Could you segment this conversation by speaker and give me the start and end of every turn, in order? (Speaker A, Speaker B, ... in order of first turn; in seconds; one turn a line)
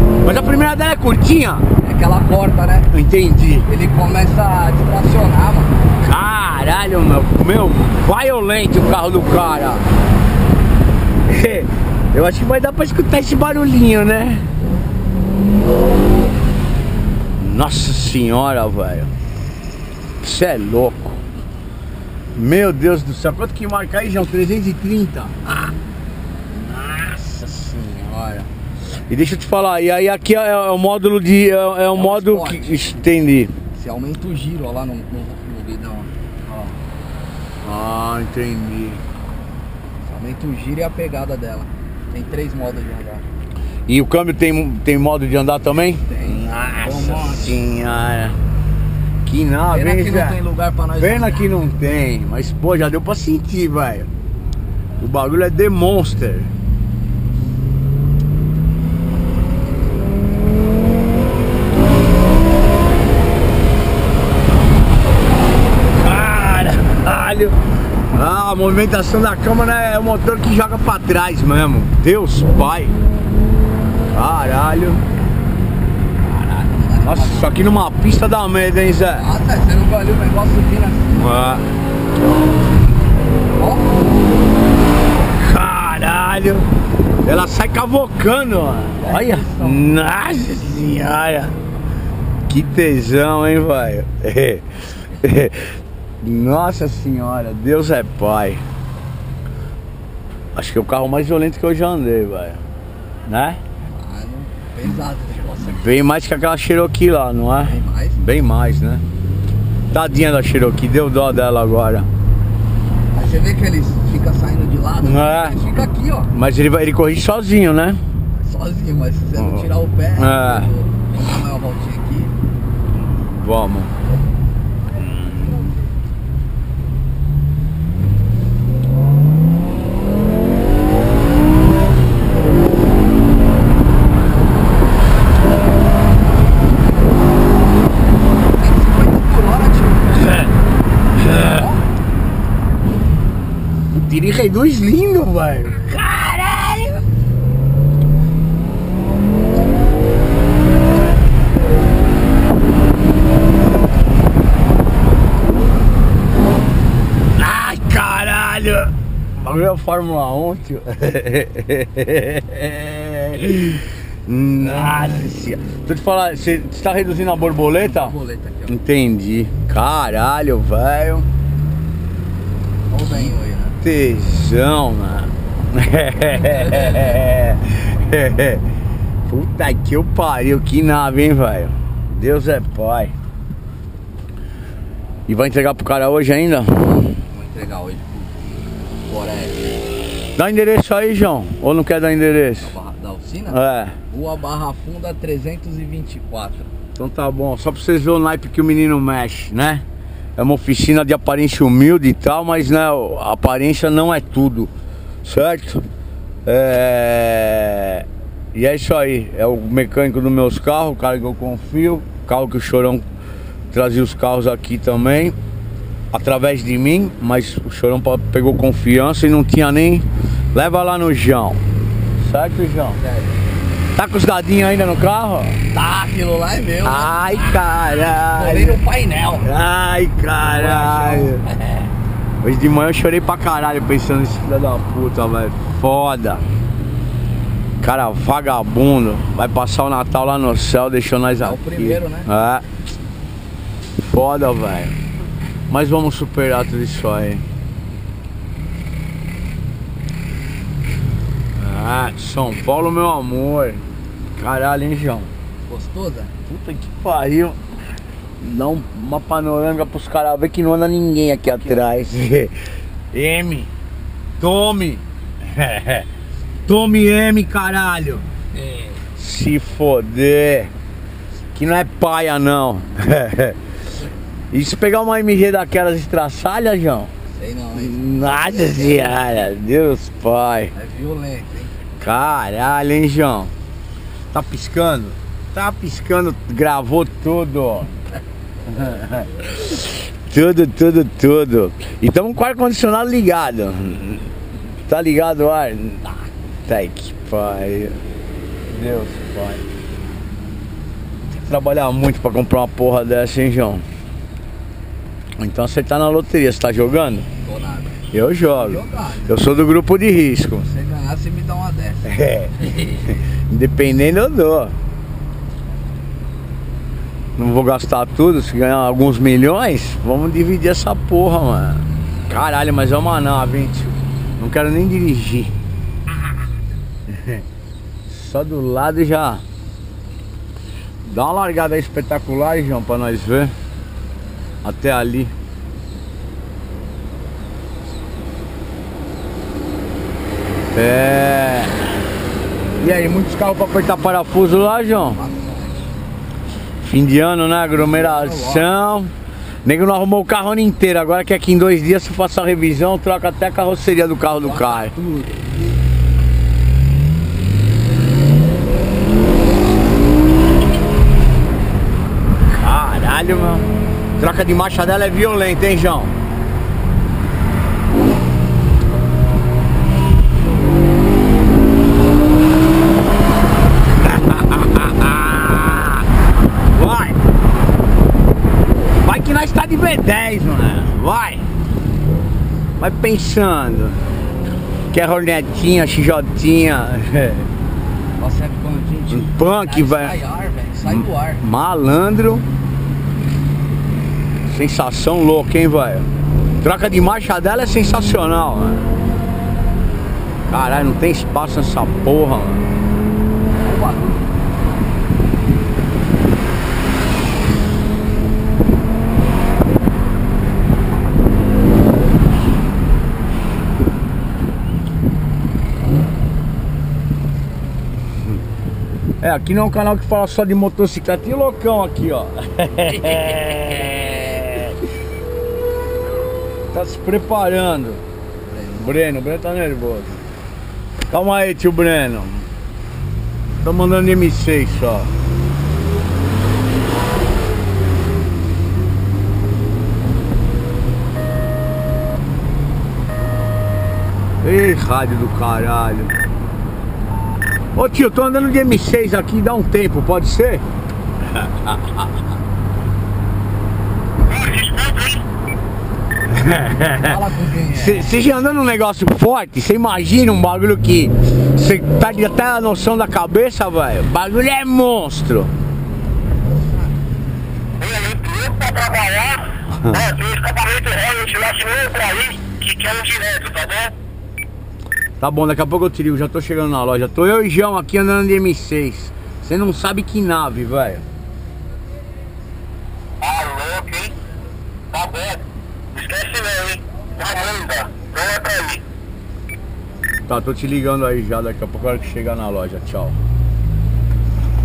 Speaker A: 0.2-1.7
Speaker B: 1.8-2.9
Speaker A: 2.9-3.7
Speaker B: 3.6-5.8
Speaker A: 6.0-9.9
Speaker A: 11.3-14.4
Speaker A: 17.4-19.1
Speaker A: 20.2-21.2
Speaker A: 22.4-25.4
Speaker A: 26.5-28.5
Speaker A: 29.1-33.5
Speaker B: 31.9-33.0
Speaker B: 33.7-36.1
Speaker A: 37.6-39.0
Speaker B: 40.0-43.2
Speaker A: 43.9-48.4
Speaker B: 46.0-47.6
Speaker A: 49.2-50.4
Speaker B: 49.7-51.5
Speaker A: 51.0-54.1
Speaker A: 55.0-56.5
Speaker A: 66.0-67.6
Speaker A: 68.1-72.9
Speaker A: 74.1-75.0
Speaker B: 76.2-77.6
Speaker A: 77.0-79.3
Speaker B: 79.2-81.4
Speaker A: 81.1-81.7
Speaker B: 83.5-84.1
Speaker A: 85.3-86.7
Speaker A: 87.2-91.6
Speaker B: 89.0-90.0
Speaker A: 92.5-98.6
Speaker A: 100.5-102.6
Speaker A: 103.3-103.6
Speaker B: 104.0-105.8
Speaker A: 105.6-109.0
Speaker B: 107.6-108.2
Speaker A: 109.9-112.1
Speaker B: 113.1-116.3
Speaker A: 115.0-115.6
Speaker A: 116.3-118.0
Speaker B: 118.4-122.3
Speaker A: 119.4-119.6
Speaker A: 120.2-120.7
Speaker A: 123.0-123.9
Speaker A: 125.0-125.6
Speaker B: 138.5-140.5
Speaker B: 141.2-141.8
Speaker A: 141.2-141.5
Speaker A: 143.9-147.0
Speaker A: 157.3-168.2
Speaker B: 167.7-168.8
Speaker A: 168.7-171.3
Speaker B: 172.9-173.8
Speaker A: 173.8-178.6
Speaker B: 176.4-177.2
Speaker A: 179.3-183.1
Speaker A: 185.3-186.9
Speaker B: 186.8-188.4
Speaker B: 189.1-189.8
Speaker A: 190.4-192.7
Speaker B: 192.6-196.7
Speaker A: 193.5-194.0
Speaker A: 197.0-199.8
Speaker A: 200.4-204.7
Speaker A: 205.2-205.8
Speaker A: 206.5-213.1
Speaker A: 213.7-215.4
Speaker A: 216.1-221.6
Speaker A: 222.2-223.0
Speaker B: 223.0-223.4
Speaker A: 223.9-225.6
Speaker B: 225.7-227.6
Speaker A: 226.8-228.8
Speaker B: 228.3-229.5
Speaker A: 229.4-231.4
Speaker B: 230.5-231.9
Speaker A: 232.4-236.4
Speaker A: 237.8-242.7
Speaker B: 241.4-242.3
Speaker A: 244.0-245.0
Speaker A: 245.7-247.4
Speaker A: 251.6-253.8
Speaker A: 254.4-255.3
Speaker B: 255.7-256.3
Speaker A: 256.5-257.6
Speaker A: 258.4-262.5
Speaker A: 263.1-263.7
Speaker A: 264.4-266.1
Speaker A: 266.7-268.2
Speaker B: 268.6-269.0
Speaker A: 269.2-270.7
Speaker A: 271.5-273.6
Speaker A: 274.5-277.1
Speaker B: 277.3-279.2
Speaker A: 277.8-280.7
Speaker B: 280.7-281.8
Speaker A: 282.0-283.5
Speaker A: 284.3-288.0
Speaker A: 288.7-294.3
Speaker A: 294.9-298.0
Speaker A: 298.7-299.6
Speaker A: 301.3-303.9
Speaker A: 305.4-307.3
Speaker B: 307.4-309.4
Speaker A: 308.1-310.7
Speaker B: 310.6-313.1
Speaker A: 312.1-312.7
Speaker A: 313.5-314.8
Speaker A: 317.4-325.5
Speaker A: 327.1-327.4
Speaker A: 328.1-329.4
Speaker A: 331.1-333.5
Speaker A: 334.6-335.3
Speaker A: 340.7-341.8
Speaker A: 342.8-345.2
Speaker B: 344.8-345.9
Speaker A: 346.8-349.1
Speaker B: 347.8-348.7
Speaker A: 349.6-354.9
Speaker B: 354.4-355.8
Speaker A: 362.5-366.1
Speaker A: 374.0-376.1
Speaker A: 376.7-377.2
Speaker A: 379.0-381.4
Speaker A: 382.8-384.0
Speaker A: 384.9-387.5
Speaker B: 388.2-391.4
Speaker A: 389.1-390.1
Speaker A: 390.9-392.5
Speaker A: 394.5-396.1
Speaker A: 396.6-398.9
Speaker A: 400.5-402.6
Speaker B: 403.6-404.3
Speaker A: 419.2-424.8
Speaker A: 426.7-428.0
Speaker B: 428.5-429.0
Speaker A: 428.8-430.2
Speaker A: 431.1-432.5
Speaker A: 433.6-435.1
Speaker A: 444.4-446.1
Speaker A: 447.8-450.6
Speaker A: 451.3-452.0
Speaker C: 454.3-455.2
Speaker A: 456.3-457.2
Speaker B: 457.0-458.2
Speaker A: 457.7-465.5
Speaker C: 467.8-473.9
Speaker A: 475.2-481.0
Speaker C: 483.2-484.1
Speaker C: 484.9-485.4
Speaker C: 485.9-488.8
Speaker A: 490.3-493.2